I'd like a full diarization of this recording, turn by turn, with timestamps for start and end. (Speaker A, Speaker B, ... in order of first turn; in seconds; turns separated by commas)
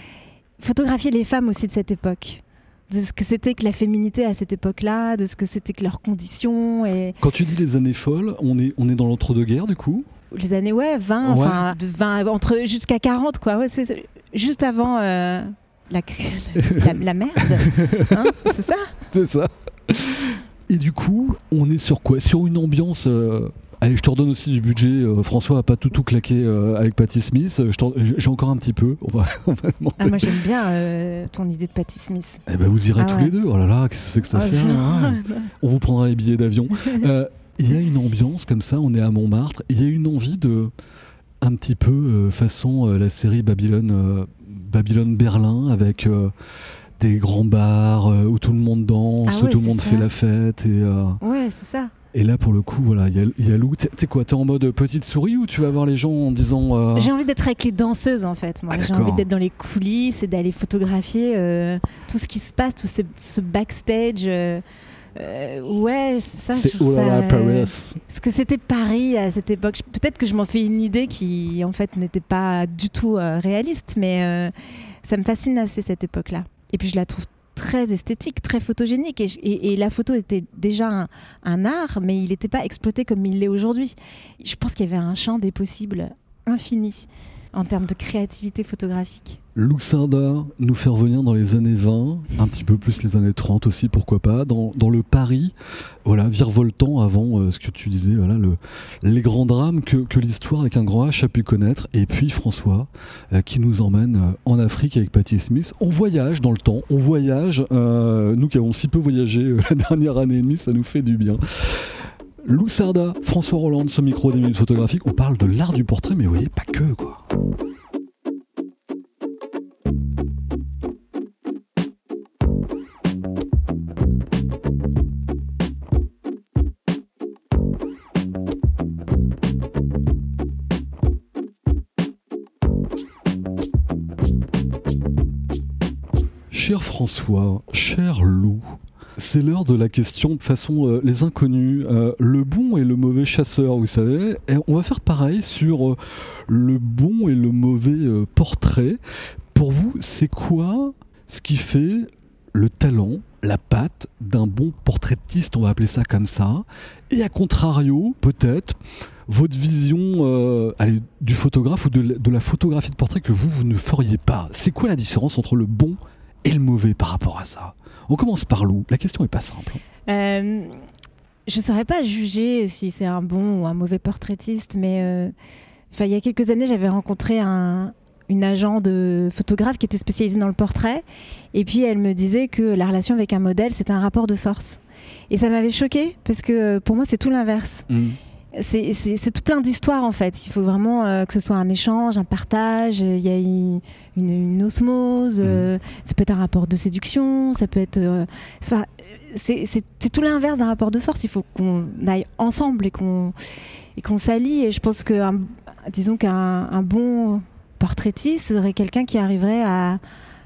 Speaker A: 0.6-7.2, Speaker B: 7.2-10.1, Speaker A: 10.3-19.0, Speaker B: 11.2-11.7, Speaker B: 16.6-16.9, Speaker B: 17.6-18.2, Speaker B: 19.1-30.4, Speaker A: 30.0-32.4, Speaker B: 32.5-40.7, Speaker A: 33.0-33.3, Speaker A: 34.3-35.5, Speaker B: 41.4-46.3, Speaker B: 47.0-51.2, Speaker A: 49.3-50.1, Speaker A: 51.2-51.9, Speaker B: 52.1-57.1, Speaker A: 56.9-64.6, Speaker B: 58.7-59.3, Speaker A: 65.2-74.5, Speaker B: 66.5-68.0, Speaker A: 75.0-89.4, Speaker B: 89.5-95.5, Speaker B: 96.0-117.2, Speaker B: 136.5-149.0, Speaker B: 149.5-169.8, Speaker A: 170.1-170.8, Speaker A: 171.5-175.3, Speaker A: 175.9-187.9, Speaker B: 187.9-188.2, Speaker A: 188.5-203.3, Speaker A: 204.0-210.0